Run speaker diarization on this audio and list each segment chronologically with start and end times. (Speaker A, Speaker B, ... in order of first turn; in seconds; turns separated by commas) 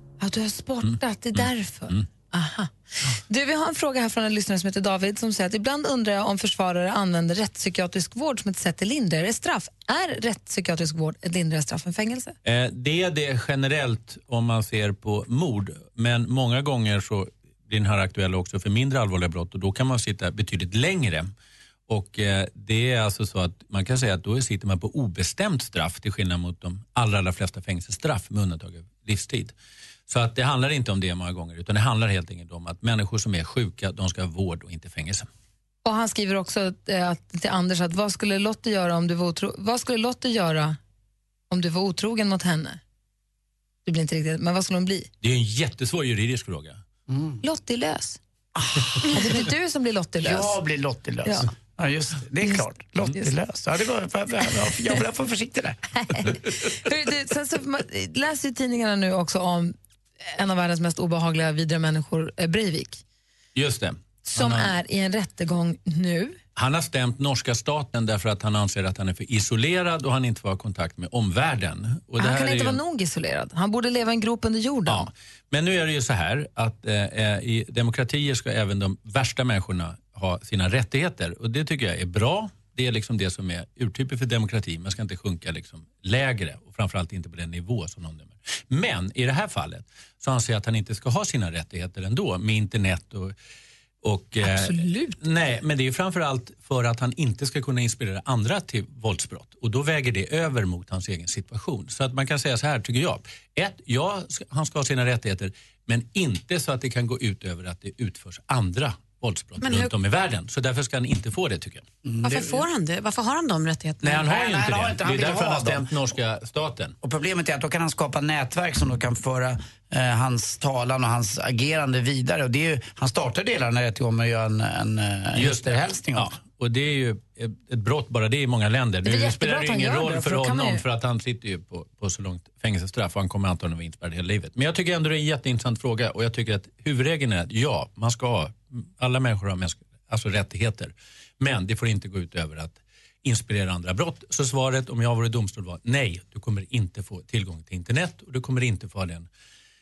Speaker A: 0.2-12.3, Speaker B: 1.4-2.0, Speaker B: 12.4-21.3, Speaker B: 21.9-29.5, Speaker B: 30.1-35.3, Speaker A: 35.8-40.8, Speaker A: 41.5-42.8, Speaker A: 43.8-45.1, Speaker B: 45.2-46.8, Speaker C: 47.1-47.4, Speaker A: 47.4-48.2, Speaker C: 48.6-48.9, Speaker A: 49.0-50.6, Speaker C: 50.2-55.8, Speaker A: 56.0-63.0, Speaker B: 63.5-64.7, Speaker A: 64.2-66.4, Speaker B: 66.5-72.8, Speaker A: 72.2-75.1, Speaker B: 74.9-93.3, Speaker B: 94.0-111.8, Speaker A: 94.4-95.2, Speaker D: 109.6-109.9, Speaker C: 112.0-112.6, Speaker D: 112.2-114.2, Speaker B: 114.0-117.0, Speaker C: 114.1-115.9, Speaker C: 117.0-126.3, Speaker B: 125.3-149.3, Speaker A: 129.0-130.8